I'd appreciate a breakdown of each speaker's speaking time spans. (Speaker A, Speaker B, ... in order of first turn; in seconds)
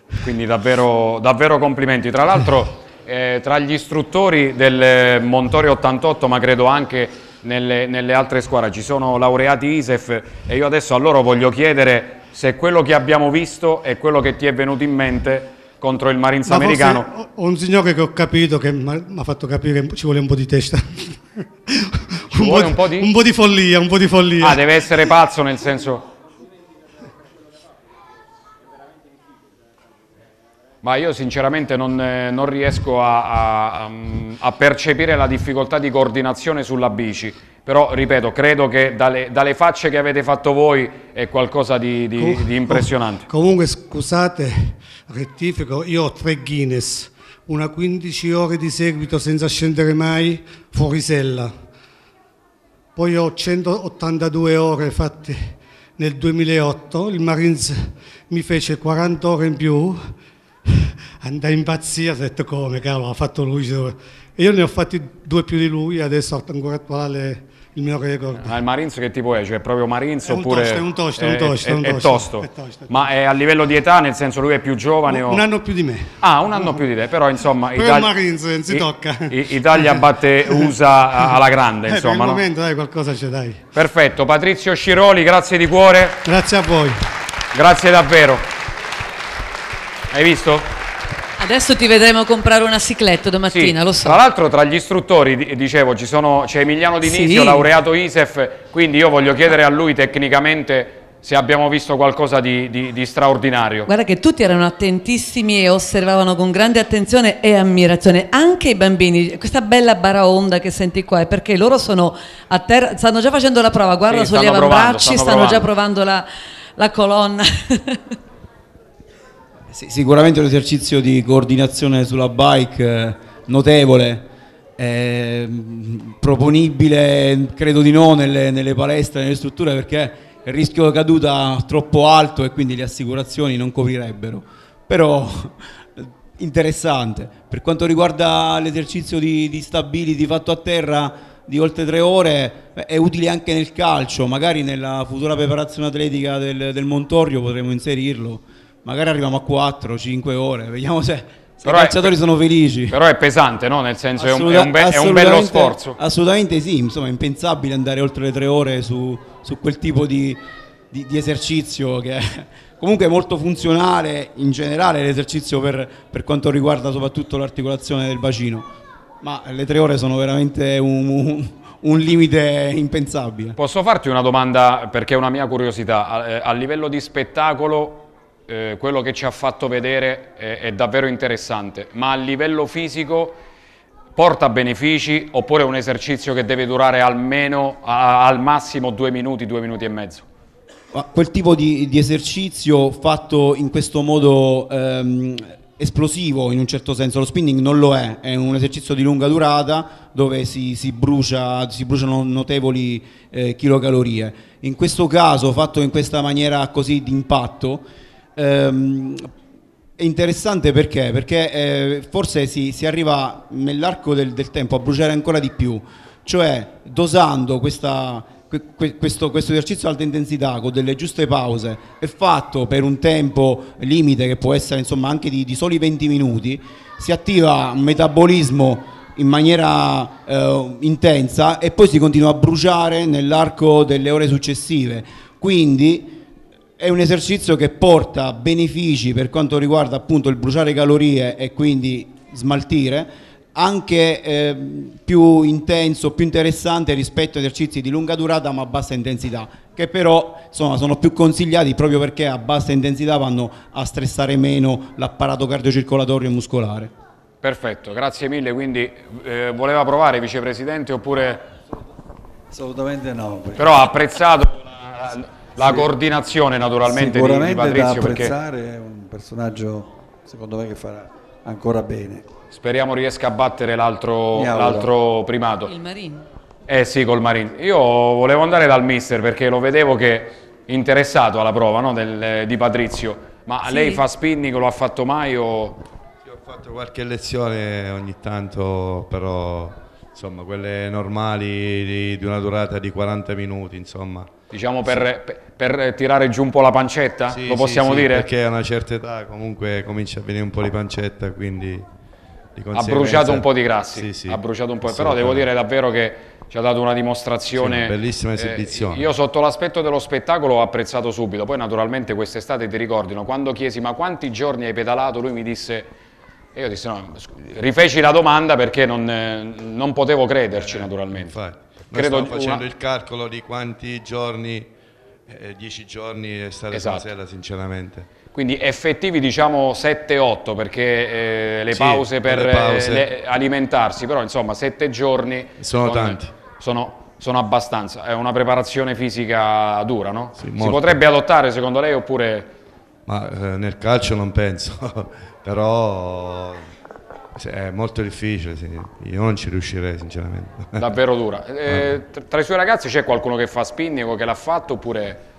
Speaker A: 0.2-17.1, 22.3-23.1, 24.4-26.1, 30.8-43.3, 68.4-75.5, 76.2-78.2, 78.7-82.4, 83.7-86.2, 87.5-88.5, 90.1-90.7, 93.5-103.9, 114.1-115.7, 151.7-152.1, 152.9-156.0, 173.6-183.4, 184.2-190.2, 257.4-261.5, 263.6-268.4, 272.5-275.7, 276.7-285.8, 294.5-298.3, 302.7-315.9, 316.6-321.4, 321.9-322.6, 326.7-327.1, 328.3-342.5, 350.8-355.2
Speaker B: 16.5-24.6, 42.2-51.5, 53.0-60.1, 60.7-68.6, 70.2-73.0, 75.1-76.8, 77.7-80.7, 81.8-83.6, 86.2-87.0
Speaker C: 91.4-94.2, 97.0-97.7, 103.9-116.3, 116.8-118.1, 275.7-276.2, 283.6-284.0
Speaker D: 119.7-124.3, 124.8-153.0, 154.2-168.7, 169.2-173.6, 190.9-209.3, 210.0-236.2, 236.8-256.9
Speaker E: 262.5-263.9, 265.6-265.9, 266.8-272.3, 274.3-274.9
Speaker F: 286.2-294.3, 297.3-301.9, 302.6-305.5, 307.5-309.1, 320.6-324.7, 325.3-328.1, 331.7-333.1, 335.6-336.4, 340.4-341.0, 343.1-346.7, 347.4-350.8, 351.7-351.9